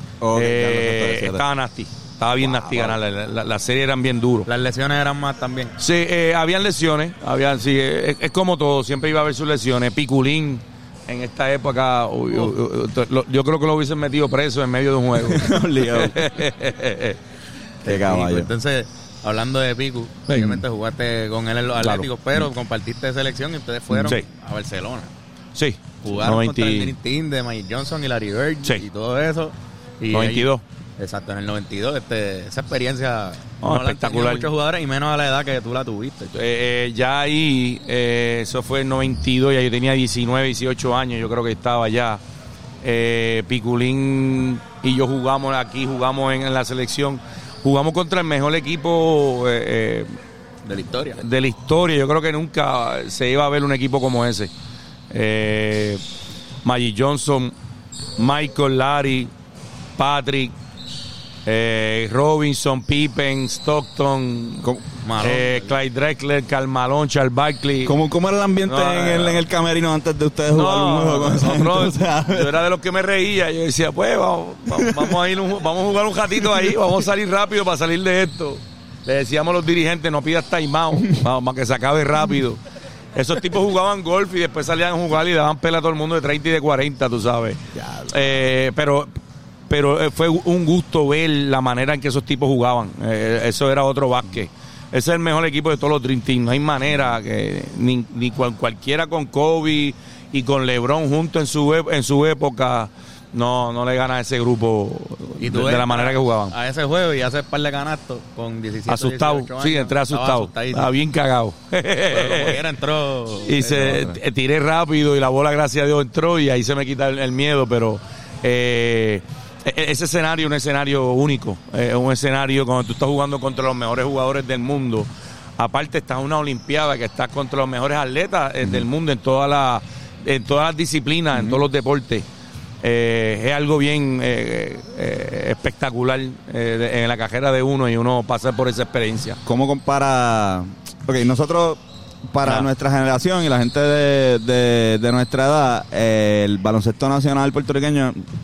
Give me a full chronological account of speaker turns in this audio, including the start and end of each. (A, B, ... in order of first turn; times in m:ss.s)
0:00.2-0:01.4 A
0:00.3-0:04.5 B
0:02.4-0:03.0 A
0:04.5-0:05.8 C
0:05.8-0:17.2 B
0:15.2-0:16.2 A
0:17.8-0:25.1 C
0:17.9-0:18.5 A
0:20.3-0:20.6 B
0:21.8-0:22.1 B
0:24.0-0:24.2 B
0:25.6-0:26.9 B
0:26.0-0:36.3 C
0:30.1-0:30.6 B
0:33.6-0:34.5 B
0:36.3-0:42.2 B
0:42.8-0:50.1 B
0:50.6-0:51.2 C
0:51.2-0:54.5 B
0:55.1-0:56.0 B
0:56.6-0:57.5 B
0:58.2-0:59.3 B
1:00.0-1:00.5 B
1:01.5-1:04.7 B
1:05.0-1:05.7 C
1:05.2-1:08.0 B
1:07.8-1:12.5 A
1:08.7-1:09.4 B
1:10.5-1:22.6 B
1:14.7-1:15.2 A
1:16.4-1:16.8 A
1:23.1-1:29.1 B
1:27.8-1:28.4 A
1:29.7-1:46.5 B
1:45.4-1:50.9 C
1:48.9-1:52.6 B
1:52.1-1:54.1 C
1:53.4-2:12.2 B
1:53.8-1:54.1 A
2:11.3-2:11.6 A
2:12.8-2:19.4 B
2:19.4-2:28.2 A